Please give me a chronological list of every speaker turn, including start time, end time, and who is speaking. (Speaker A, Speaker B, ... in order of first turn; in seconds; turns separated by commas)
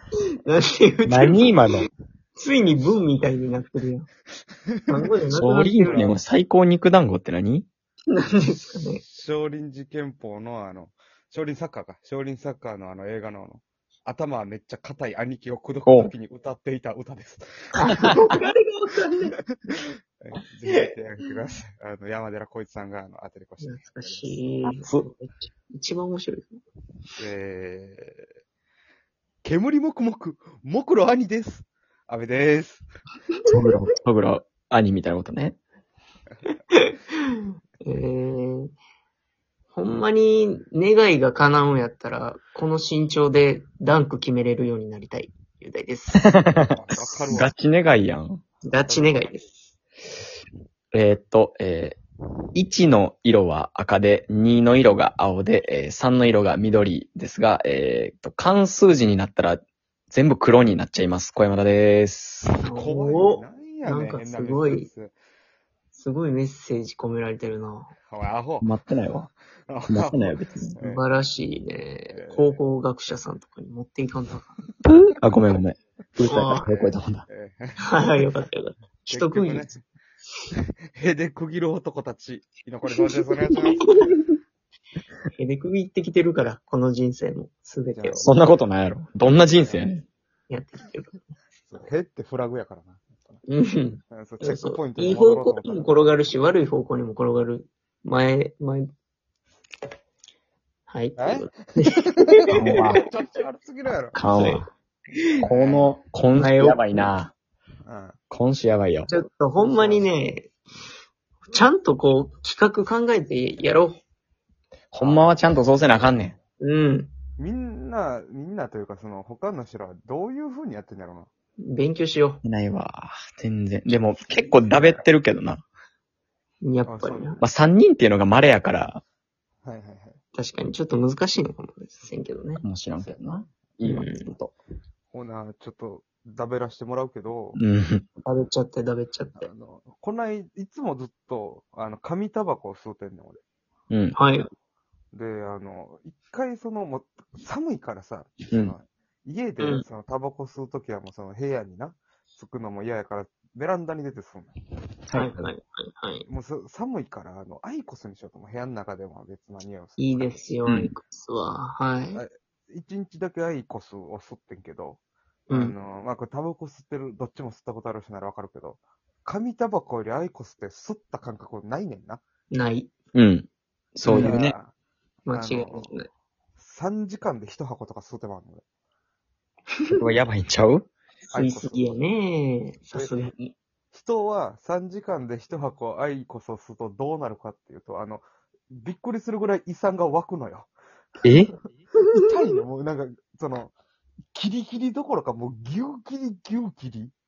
Speaker A: 0.5-1.6, Speaker B: 1.1-1.9, Speaker A: 2.4-4.1, Speaker A: 4.9-6.0, Speaker B: 5.3-7.7, Speaker C: 5.8-6.2, Speaker A: 8.1-9.0, Speaker C: 9.0-18.3, Speaker B: 15.8-16.1, Speaker A: 17.7-19.4, Speaker C: 20.2-24.4, Speaker A: 20.6-20.9, Speaker A: 23.6-26.6, Speaker B: 24.7-25.1, Speaker C: 27.2-28.2, Speaker C: 29.4-32.8, Speaker B: 33.5-35.6, Speaker A: 37.8-38.7, Speaker A: 39.7-46.3, Speaker B: 46.2-46.7, Speaker C: 46.6-47.5, Speaker A: 47.2-47.5, Speaker B: 47.3-48.4, Speaker A: 48.6-49.6, Speaker C: 48.9-49.3, Speaker B: 50.9-52.0, Speaker B: 52.5-62.6, Speaker A: 62.6-64.9, Speaker C: 62.7-65.1, Speaker A: 65.9-67.9, Speaker C: 68.0-68.7, Speaker B: 68.6-69.3, Speaker C: 69.7-70.2, Speaker B: 69.9-70.7, Speaker C: 70.8-71.0, Speaker A: 70.8-74.6, Speaker C: 72.1-72.6, Speaker B: 74.8-77.2, Speaker C: 76.2-77.8, Speaker A: 76.2-76.7, Speaker A: 77.8-79.7, Speaker C: 79.1-79.8, Speaker C: 81.0-84.0, Speaker A: 82.9-84.3, Speaker A: 85.3-88.3, Speaker C: 87.9-88.3, Speaker B: 88.2-90.0, Speaker C: 89.6-89.9, Speaker A: 90.5-91.3, Speaker C: 91.7-93.4, Speaker A: 93.5-98.8, Speaker C: 94.1-95.9, Speaker A: 100.9-103.0, Speaker C: 101.2-104.2, Speaker B: 102.5-103.0, Speaker B: 104.1-104.6, Speaker A: 104.1-105.4, Speaker C: 105.4-106.0, Speaker B: 105.4-107.3, Speaker A: 106.3-106.8, Speaker C: 107.8-108.2, Speaker B: 108.3-109.1, Speaker A: 109.0-110.5, Speaker C: 109.6-110.1, Speaker A: 111.5-114.0, Speaker B: 114.9-116.3, Speaker C: 115.0-115.4, Speaker A: 116.6-117.1, Speaker C: 117.4-121.3, Speaker A: 121.6-122.4, Speaker B: 122.4-125.7, Speaker C: 124.3-125.0, Speaker A: 126.6-127.4, Speaker C: 126.8-127.4, Speaker B: 127.4-129.0, Speaker C: 129.6-130.2, Speaker A: 130.3-132.6, Speaker B: 132.6-134.5, Speaker C: 133.0-133.2, Speaker A: 133.8-134.3, Speaker C: 135.1-137.6, Speaker B: 137.6-138.0, Speaker A: 138.2-139.5, Speaker C: 139.4-143.4, Speaker B: 143.9-144.2, Speaker A: 144.2-144.5, Speaker C: 145.1-154.5, Speaker B: 155.1-155.4, Speaker A: 155.1-156.2, Speaker C: 156.2-160.4, Speaker A: 160.0-162.2, Speaker B: 160.7-160.9, Speaker C: 162.1-172.2, Speaker A: 165.5-165.7, Speaker A: 172.5-172.9, Speaker B: 173.1-174.5, Speaker A: 174.0-174.4, Speaker C: 174.1-174.7, Speaker A: 175.2-176.1, Speaker C: 175.3-175.9, Speaker C: 176.6-178.6, Speaker B: 179.9-180.9, Speaker A: 181.3-183.5, Speaker C: 181.3-181.9, Speaker C: 182.9-183.2, Speaker C: 183.9-190.7, Speaker B: 191.2-191.5, Speaker A: 192.0-192.2, Speaker C: 192.1-193.7, Speaker C: 194.3-197.1